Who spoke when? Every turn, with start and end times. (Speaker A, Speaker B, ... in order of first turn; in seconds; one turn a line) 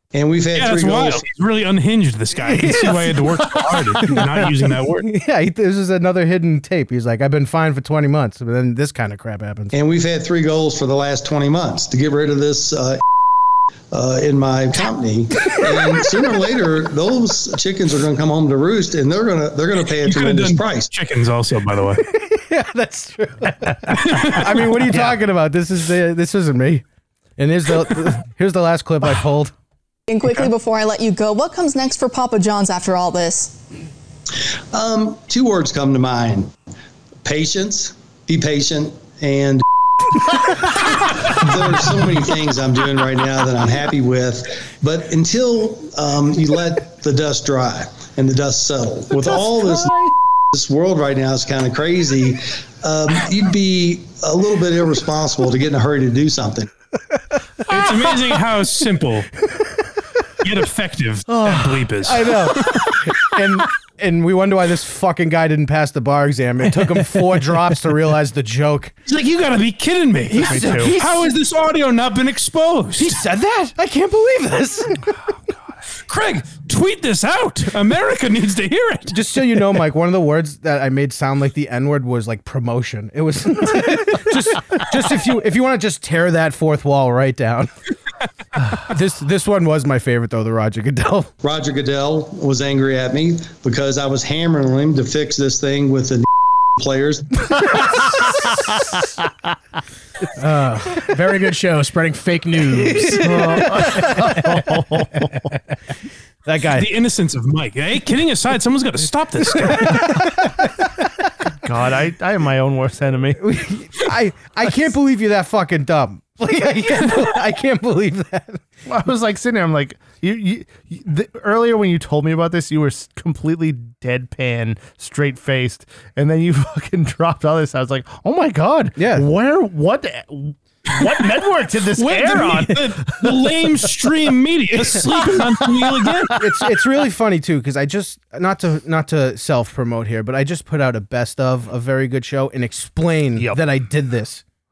Speaker A: 0.1-1.2
Speaker B: 0.5-5.1
Speaker C: 2.4-4.5
Speaker C: 5.0-9.7
Speaker A: 9.7-13.0
Speaker A: 13.9-20.9
Speaker B: 19.9-22.0
Speaker C: 22.1-26.8
Speaker B: 23.9-24.7
Speaker D: 24.9-25.2
Speaker C: 27.4-29.5
Speaker E: 30.1-33.6
Speaker A: 34.7-36.5
Speaker A: 37.2-49.9
Speaker D: 49.7-50.1
Speaker A: 50.5-56.7
Speaker B: 57.7-59.3
Speaker B: 60.4-63.0
Speaker D: 61.3-61.8
Speaker C: 62.0-68.9
Speaker B: 69.1-73.2
Speaker C: 70.3-71.3
Speaker D: 70.4-71.0
Speaker C: 73.0-75.1
Speaker B: 76.1-79.2
Speaker C: 79.1-87.7
Speaker C: 88.7-91.3
Speaker A: 91.4-96.2
Speaker A: 96.8-97.7
Speaker F: 100.4-104.6
Speaker C: 100.4-100.9
Speaker D: 103.1-105.5
Speaker C: 106.4-106.9
Speaker B: 106.7-110.3
Speaker C: 109.8-110.3
Speaker D: 111.5-113.5
Speaker C: 113.4-118.6
Speaker D: 118.8-133.9
Speaker C: 129.0-129.3
Speaker B: 131.9-136.4
Speaker D: 134.7-136.4
Speaker C: 136.4-144.4